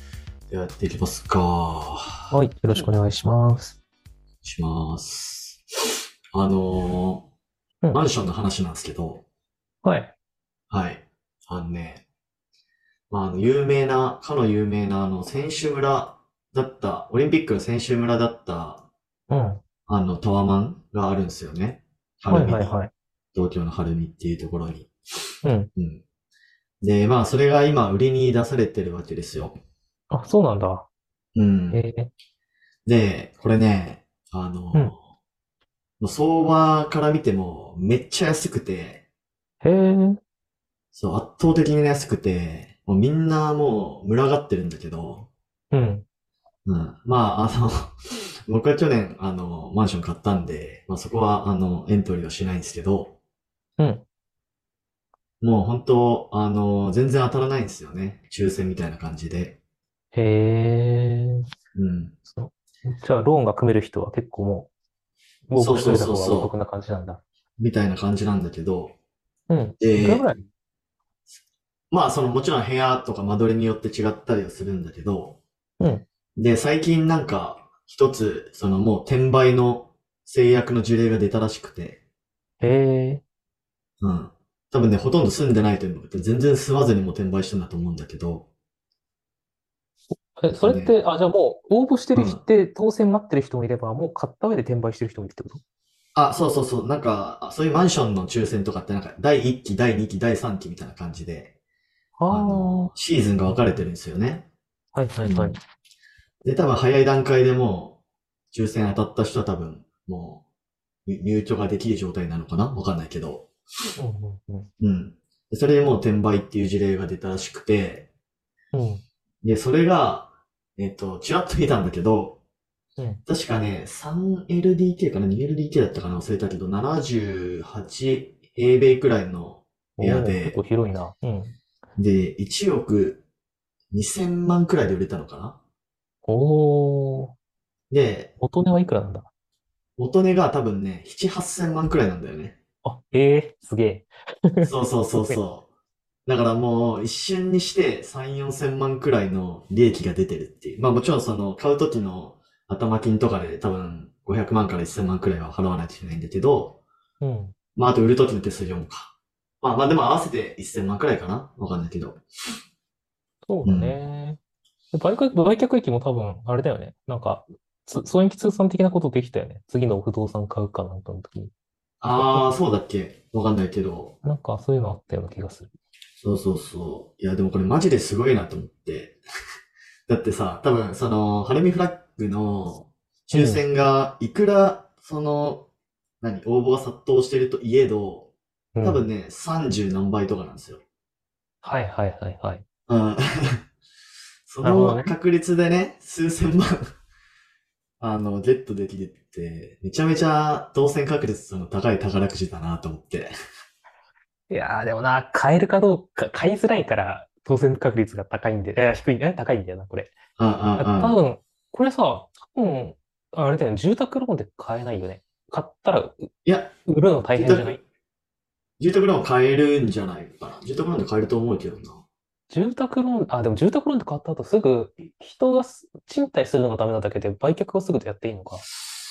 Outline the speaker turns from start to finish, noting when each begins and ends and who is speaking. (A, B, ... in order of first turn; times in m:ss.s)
0:00.5-0:02.9 A
0:02.3-0:03.8 B
0:04.4-0:05.6 A
0:06.3-0:07.3 A
0:07.9-0:09.2 A
0:09.8-0:10.1 B
0:10.7-0:12.0 A
0:13.1-0:18.9 A
0:19.3-0:19.6 B
0:19.9-0:22.8 A
0:22.3-0:22.9 B
0:23.3-0:24.9 A
0:25.4-0:25.7 B
0:25.8-0:26.0 A
0:26.8-0:29.6 A
0:30.1-0:30.9 B
0:31.4-0:31.8 A
0:31.7-0:32.1 B
0:32.9-0:34.9 A
0:36.0-0:39.0 A
0:39.6-0:40.2 B
0:40.9-0:45.3 A
0:45.7-0:46.0 B
0:46.7-0:48.0 A
0:48.5-0:53.2 A
0:53.8-0:54.0 B
0:55.4-0:59.6 A
1:00.1-1:01.4 B
1:01.8-1:02.2 A
1:02.3-1:04.7 B
1:05.5-1:07.2 B
1:05.6-1:06.5 A
1:07.6-1:09.0 A
1:09.5-1:10.5 B
1:09.8-1:10.3 A
1:11.9-1:15.4 A
1:15.8-1:16.0 B
1:16.4-1:22.0 A
1:22.6-1:23.2 B
1:24.0-1:28.5 A
1:30.1-1:35.6 B
1:30.5-1:31.0 A
1:32.2-1:32.4 A
1:36.2-1:41.5 A
1:42.2-1:42.9 B
1:42.3-1:44.5 A
1:43.5-1:43.8 B
1:44.9-1:45.6 B
1:45.2-1:45.6 A
1:46.4-1:48.0 A
1:48.5-1:50.4 A
1:51.1-1:53.5 A
1:54.0-1:54.7 B
1:54.8-1:58.1 A
1:58.7-1:59.0 B
1:59.4-2:02.4 A
2:03.0-2:03.2 B
2:03.3-2:10.6 A
2:10.0-2:11.6 B
2:12.0-2:13.2 A
2:13.9-2:15.6 A
2:16.2-2:17.3 B
2:17.9-2:18.3 A
2:18.4-2:19.3 B
2:20.0-2:22.6 A
2:22.8-2:25.4 B
2:24.6-2:25.7 A
2:26.3-2:36.8 A
2:37.2-2:37.6 B
2:37.8-2:42.2 A
2:43.5-2:44.4 B
2:43.6-2:44.0 A
2:44.9-2:51.5 B
2:52.0-2:54.2 A
2:52.1-2:52.5 B
2:54.2-2:55.7 B
2:56.2-2:59.2 A
3:00.1-3:05.7 A
3:03.3-3:03.6 B
3:06.2-3:08.3 A
3:08.8-3:09.1 B
3:08.8-3:10.8 A
3:11.6-3:12.6 B
3:12.9-3:13.6 A
3:14.5-3:16.8 A
3:14.6-3:15.1 B
3:18.0-3:23.3 A
3:24.5-3:30.1 B
3:30.4-3:31.2 A
3:30.8-3:36.3 B
3:36.4-3:36.7 A
3:36.9-3:37.8 B
3:37.4-3:37.8 A
3:38.8-3:42.0 A
3:42.5-3:48.6 B